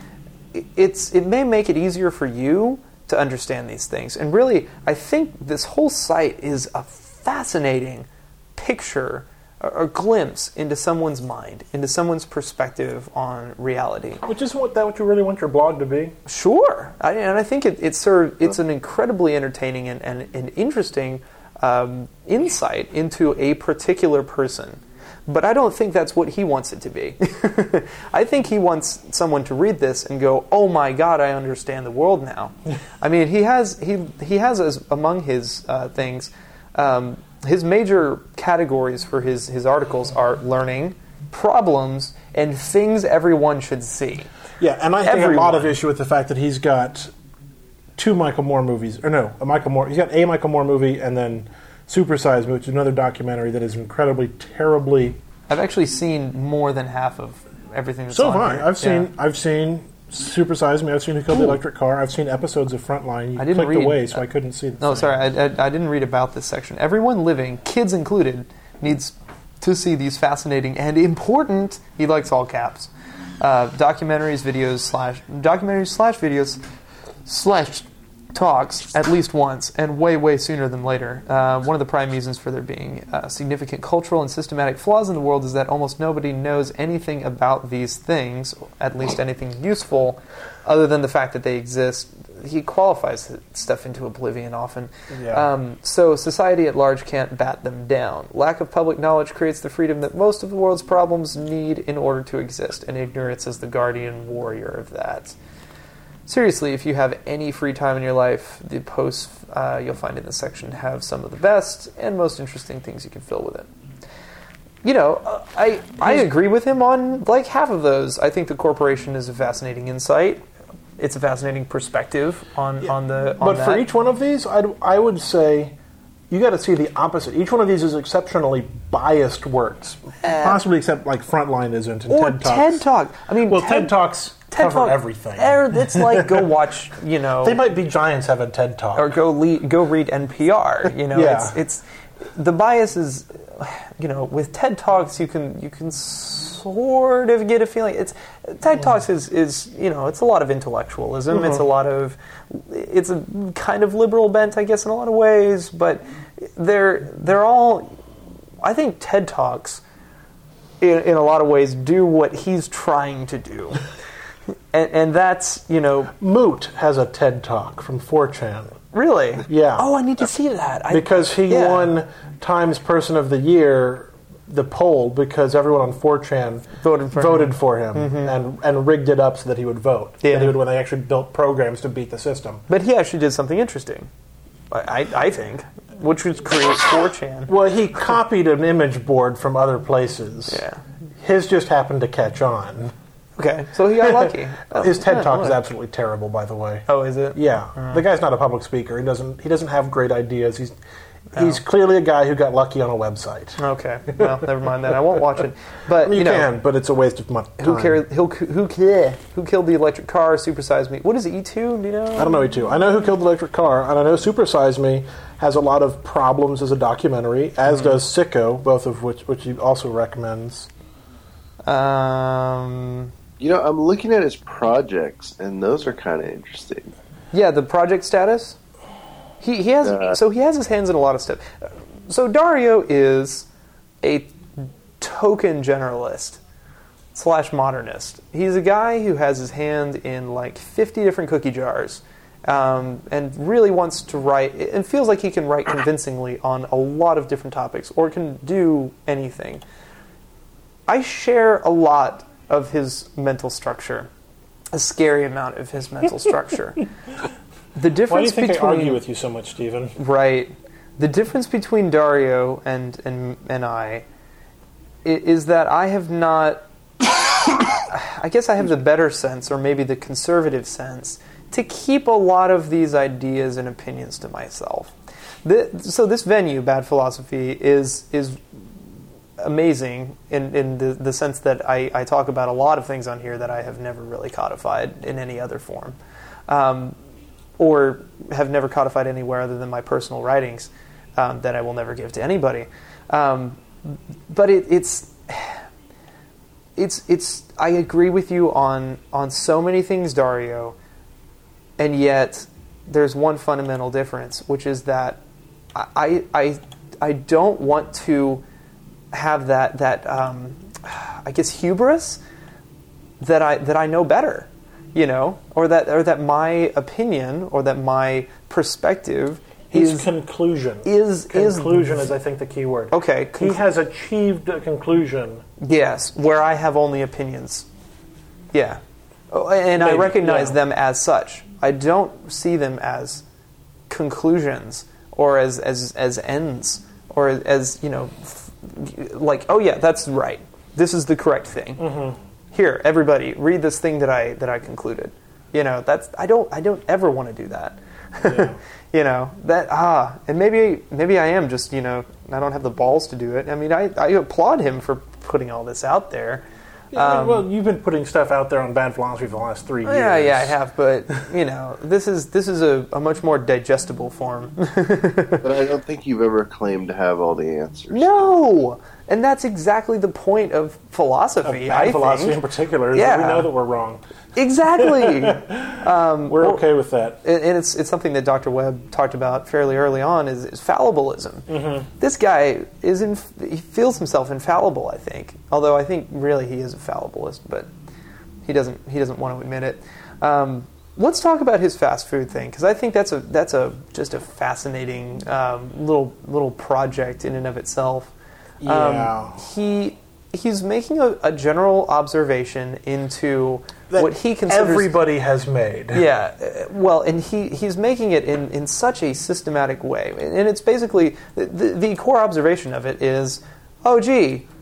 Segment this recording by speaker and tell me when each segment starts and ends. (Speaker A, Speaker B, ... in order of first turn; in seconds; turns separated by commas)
Speaker A: 0.5-14.2, Speaker B: 14.2-16.1, Speaker A: 16.3-44.3, Speaker B: 44.6-47.1, Speaker A: 45.0-45.8, Speaker B: 48.0-55.2, Speaker A: 55.5-59.1, Speaker B: 58.1-65.2, Speaker A: 63.4-64.2, Speaker A: 64.8-76.6, Speaker A: 77.2-105.3, Speaker B: 95.1-95.5, Speaker A: 106.3-113.7, Speaker A: 114.8-120.4, Speaker A: 121.0-123.8, Speaker B: 122.8-125.8, Speaker B: 126.3-132.8, Speaker A: 130.2-130.6, Speaker A: 132.1-133.9, Speaker B: 133.4-136.5, Speaker A: 134.5-137.6, Speaker B: 137.4-139.1, Speaker A: 138.9-141.8, Speaker B: 141.1-141.6, Speaker A: 142.3-157.9, Speaker B: 151.3-151.6, Speaker A: 158.6-159.8, Speaker A: 160.8-163.8, Speaker A: 164.7-166.1, Speaker B: 166.2-168.8, Speaker A: 168.9-171.9, Speaker B: 169.5-169.9, Speaker B: 170.9-182.6, Speaker A: 176.8-178.3, Speaker A: 180.2-180.6, Speaker A: 182.7-184.1, Speaker A: 184.7-187.5, Speaker B: 187.5-190.6, Speaker A: 190.5-190.8, Speaker B: 191.2-192.9, Speaker A: 193.4-195.6, Speaker B: 194.0-200.8, Speaker A: 196.9-198.0, Speaker B: 201.3-203.6, Speaker A: 201.3-201.6, Speaker A: 203.6-206.5, Speaker B: 205.9-208.0, Speaker A: 207.6-212.4, Speaker B: 212.1-220.7, Speaker A: 217.7-218.0, Speaker A: 221.7-223.1, Speaker C: 223.4-226.9, Speaker A: 227.3-228.6, Speaker A: 229.4-233.5, Speaker C: 229.8-230.2, Speaker A: 234.0-236.4, Speaker A: 237.1-249.6, Speaker A: 250.9-254.1, Speaker A: 254.7-256.9, Speaker A: 257.8-259.0, Speaker B: 258.1-259.9, Speaker A: 259.9-264.0, Speaker A: 265.0-266.6, Speaker A: 267.8-274.9, Speaker A: 275.4-278.4, Speaker A: 279.4-285.9, Speaker A: 286.5-286.9, Speaker A: 287.6-295.6, Speaker A: 296.8-300.7, Speaker A: 301.8-305.2, Speaker A: 305.7-308.4, Speaker A: 309.1-312.2, Speaker A: 313.2-320.1, Speaker B: 319.7-325.4, Speaker A: 320.8-322.1, Speaker A: 322.9-323.6, Speaker A: 325.6-327.6, Speaker A: 328.5-333.2, Speaker B: 329.8-330.6, Speaker A: 333.9-341.9, Speaker B: 341.8-342.2, Speaker A: 342.5-357.4, Speaker B: 348.2-348.6, Speaker B: 356.9-360.6, Speaker A: 359.8-365.4, Speaker C: 365.4-368.3, Speaker A: 367.9-372.4, Speaker B: 371.4-374.0, Speaker A: 372.9-373.5, Speaker A: 374.4-376.6, Speaker B: 374.8-377.2, Speaker A: 377.2-387.7, Speaker B: 381.5-381.9, Speaker A: 388.4-398.1, Speaker B: 398.6-399.4, Speaker A: 398.6-405.0, Speaker B: 403.9-406.1, Speaker A: 405.9-414.4